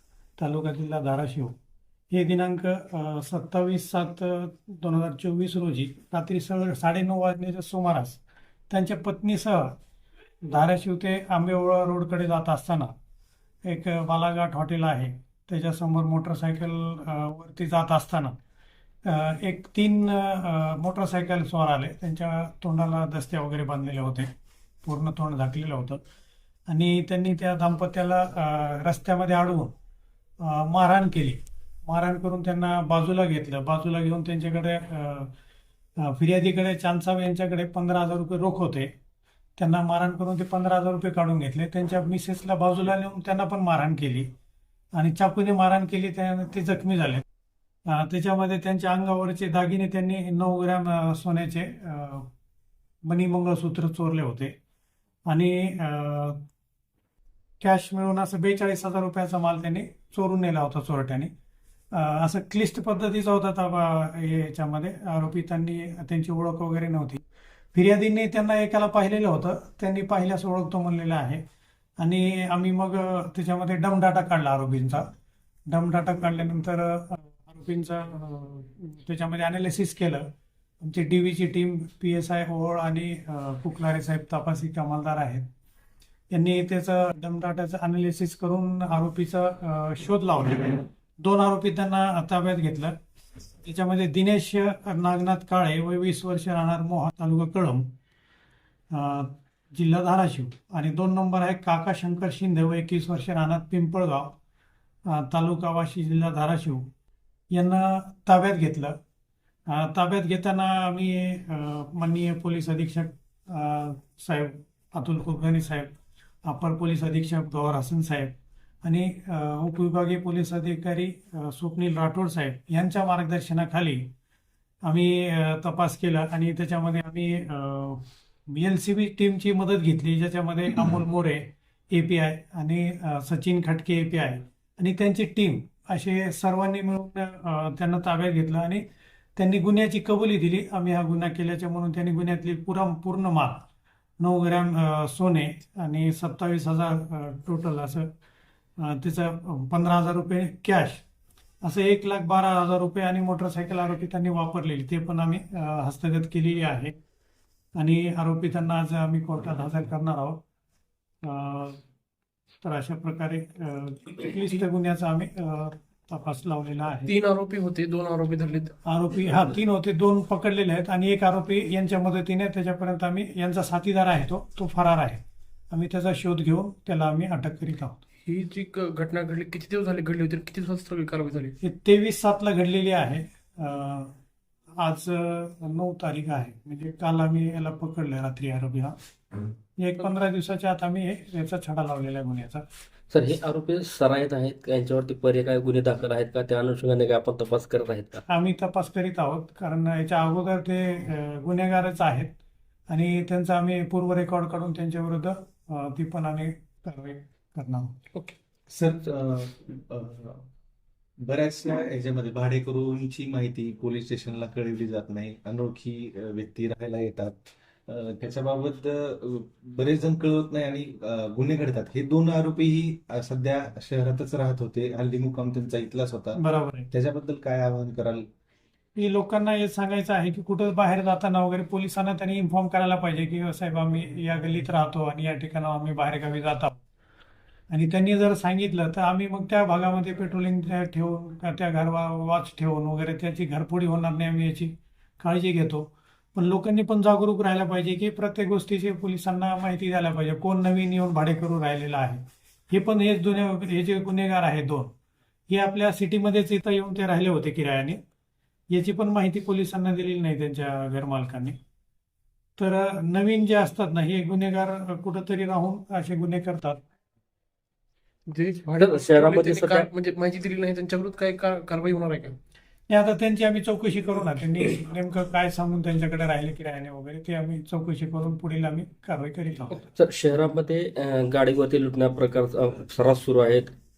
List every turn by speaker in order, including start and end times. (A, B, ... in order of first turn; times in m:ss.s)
0:00.4-0:01.5 A
0:02.1-0:09.8 A
0:10.4-0:12.9 A
0:13.6-0:18.4 A
0:19.0-0:24.3 A
0:24.8-0:26.0 A
0:26.7-0:29.7 A
0:30.4-0:35.3 A
0:36.0-0:38.9 A
0:39.6-0:44.3 A
0:44.9-0:47.2 A
0:47.9-0:52.3 A
0:53.0-0:54.5 A
0:55.3-0:56.4 A
0:57.6-1:01.3 A
1:01.9-1:07.2 A
1:07.7-1:11.4 A
1:12.0-1:15.0 A
1:15.7-1:20.2 A
1:20.8-1:25.4 A
1:26.3-1:33.0 A
1:33.6-1:37.9 A
1:38.9-1:44.4 A
1:45.1-1:46.9 A
1:47.5-1:49.0 A
1:49.7-1:55.9 A
1:56.4-2:04.1 A
2:04.8-2:18.8 A
2:19.4-2:23.6 A
2:24.2-2:28.1 A
2:28.8-2:31.0 A
2:31.6-2:37.0 A
2:37.8-2:40.4 A
2:41.2-2:41.8 A
2:42.6-2:47.1 A
2:47.1-2:48.7 B
2:48.8-2:55.2 A
2:55.7-2:58.0 A
2:58.2-3:01.5 B
3:01.6-3:04.1 A
3:04.8-3:09.0 A
3:09.8-3:12.6 A
3:13.1-3:18.2 C
3:18.3-3:22.3 A
3:22.9-3:27.9 A
3:28.7-3:30.4 D
3:31.2-3:48.2 D
3:46.4-3:46.9 A
3:49.0-3:56.8 A
3:57.7-4:14.9 A
4:15.5-4:18.0 A
4:18.7-4:21.6 A
4:22.6-4:26.8 A
4:28.3-4:32.4 B
4:28.8-4:29.9 C
4:32.9-4:39.9 A
4:39.9-4:43.7 C